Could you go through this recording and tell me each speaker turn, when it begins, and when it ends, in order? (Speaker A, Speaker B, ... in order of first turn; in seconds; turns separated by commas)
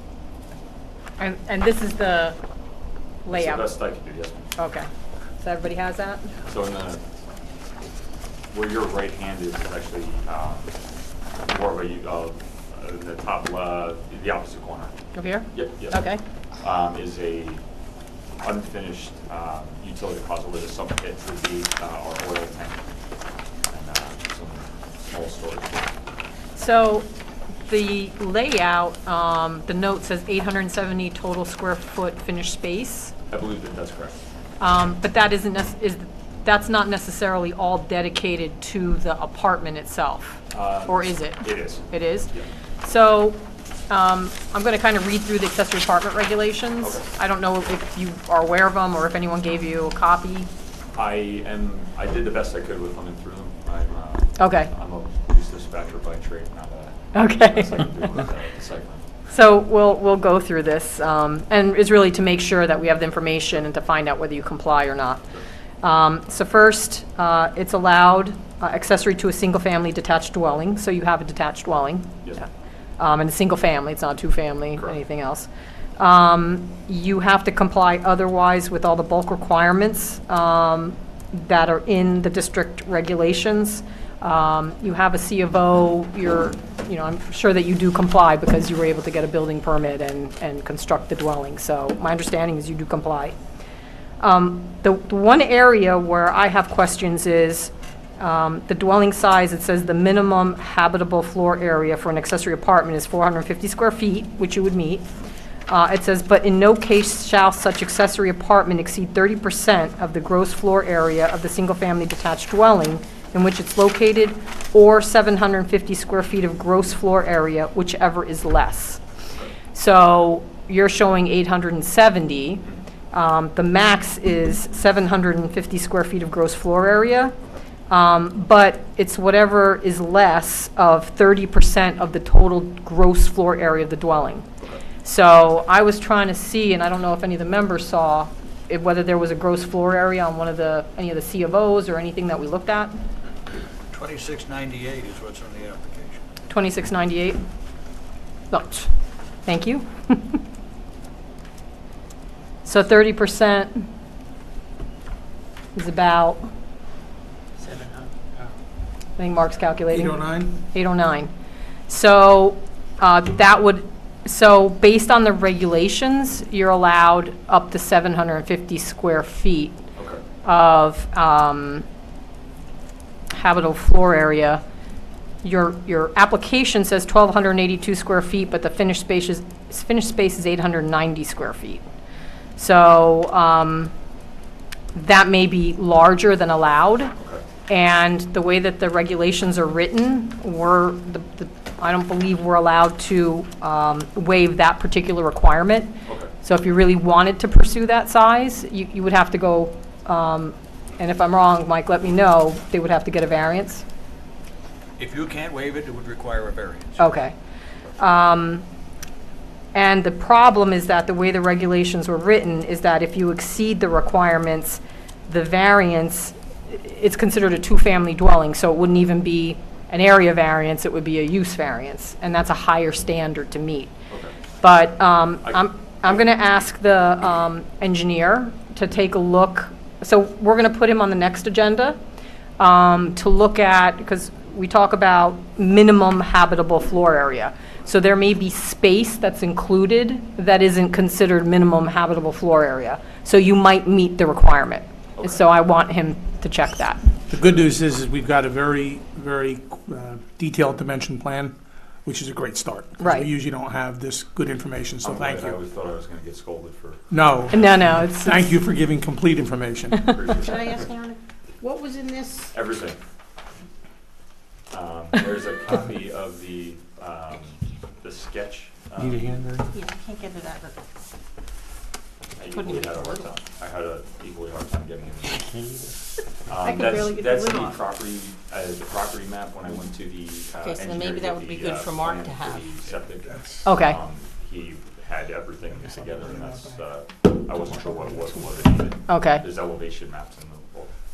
Speaker A: 1.2-2.4, Speaker A: 3.2-3.7, Speaker B: 3.3-4.5, Speaker A: 4.6-4.9, Speaker A: 5.4-6.3, Speaker B: 6.4-7.0, Speaker B: 8.5-10.7, Speaker B: 11.4-14.9, Speaker A: 15.1-16.2, Speaker B: 15.5-16.1, Speaker B: 16.6-17.6, Speaker B: 18.4-22.8, Speaker B: 23.7-25.9, Speaker A: 26.6-27.1, Speaker A: 27.7-33.1, Speaker B: 33.3-34.2, Speaker A: 34.6-42.3, Speaker B: 40.5-42.5, Speaker A: 42.8-50.5, Speaker B: 46.8-47.1, Speaker B: 50.9-59.1, Speaker A: 54.4-54.7, Speaker A: 57.1-58.0, Speaker A: 59.3-65.2, Speaker A: 65.8-72.4, Speaker A: 73.0-93.3, Speaker A: 94.2-105.1, Speaker A: 105.7-119.0, Speaker A: 119.7-127.3, Speaker A: 127.9-134.5, Speaker A: 135.0-142.9, Speaker C: 143.9-146.2, Speaker A: 146.5-147.4, Speaker A: 148.5-148.9, Speaker A: 149.4-150.4, Speaker A: 152.6-153.8, Speaker A: 155.7-156.5, Speaker D: 157.6-157.9, Speaker A: 159.2-161.3, Speaker D: 159.9-160.6, Speaker A: 161.9-169.8, Speaker B: 169.9-170.2, Speaker A: 170.4-171.8, Speaker A: 173.3-174.6, Speaker A: 175.4-181.8, Speaker A: 182.6-183.9, Speaker A: 184.9-187.1, Speaker B: 187.2-187.4, Speaker A: 187.7-203.8, Speaker B: 196.1-196.3, Speaker C: 205.0-207.2, Speaker A: 207.0-207.3, Speaker A: 208.0-208.6, Speaker A: 209.7-223.9, Speaker B: 224.1-224.3, Speaker A: 224.6-232.0, Speaker A: 232.6-247.2, Speaker B: 245.2-245.4, Speaker D: 247.3-255.6, Speaker A: 253.0-253.3, Speaker B: 255.0-257.0, Speaker D: 257.1-260.0, Speaker A: 257.5-258.5, Speaker B: 257.5-257.8, Speaker A: 259.9-260.4, Speaker B: 260.0-260.9, Speaker E: 260.4-262.5, Speaker B: 262.5-263.0, Speaker B: 264.7-269.4, Speaker D: 269.0-269.7, Speaker E: 269.7-270.8, Speaker B: 272.4-275.7, Speaker E: 272.5-273.3, Speaker B: 276.4-290.9, Speaker E: 276.6-277.8, Speaker E: 280.5-282.7, Speaker A: 283.6-284.0, Speaker A: 289.1-289.4